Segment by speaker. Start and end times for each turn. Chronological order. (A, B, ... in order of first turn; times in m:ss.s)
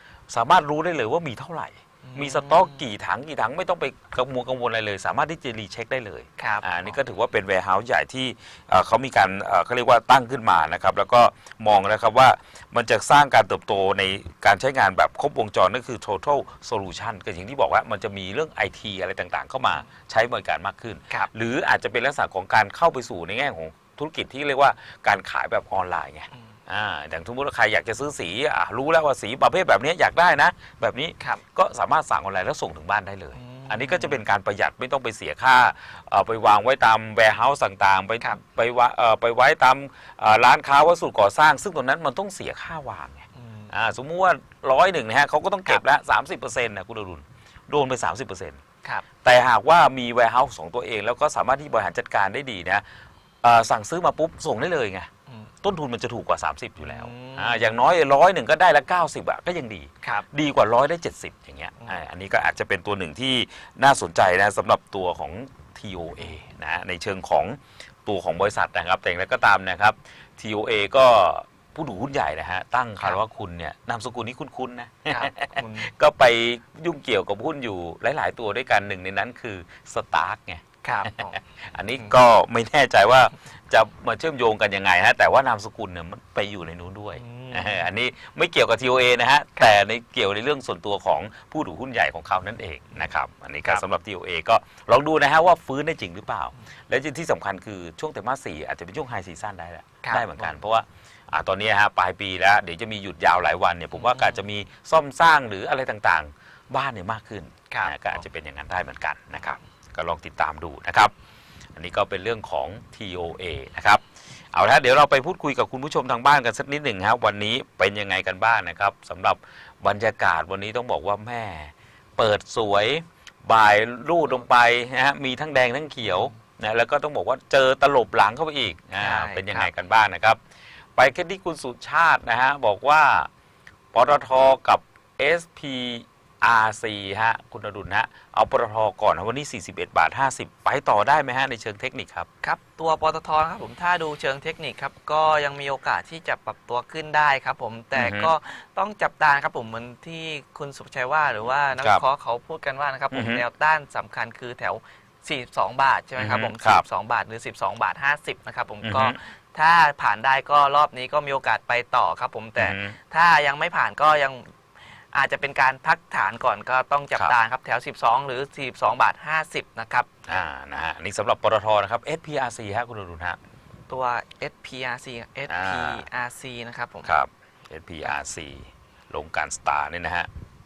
0:00.3-0:48.6 A
0:02.0-0:02.8 B
0:06.4-0:06.9 B
0:33.3-0:34.2 B
0:43.4-0:43.7 B
0:49.2-0:52.8 A
0:53.4-0:55.1 A
0:55.6-1:51.1 A
0:56.8-0:57.7 B
1:00.0-1:00.3 B
1:15.1-1:15.9 B
1:20.8-1:21.4 B
1:27.2-1:27.9 B
1:40.0-1:40.6 B
1:44.0-1:44.4 B
1:47.7-1:48.2 B
1:51.8-2:10.4 A
2:09.0-2:09.7 B
2:11.0-2:13.3 A
2:13.9-2:22.3 A
2:22.4-2:44.5 B
2:28.0-2:28.3 A
2:33.1-2:33.4 A
2:36.2-2:36.8 A
2:38.8-2:39.2 A
2:42.6-2:43.0 A
2:45.1-2:50.1 B
2:50.3-2:53.4 A
2:53.9-2:57.1 B
2:55.5-2:56.0 A
2:57.0-3:00.3 A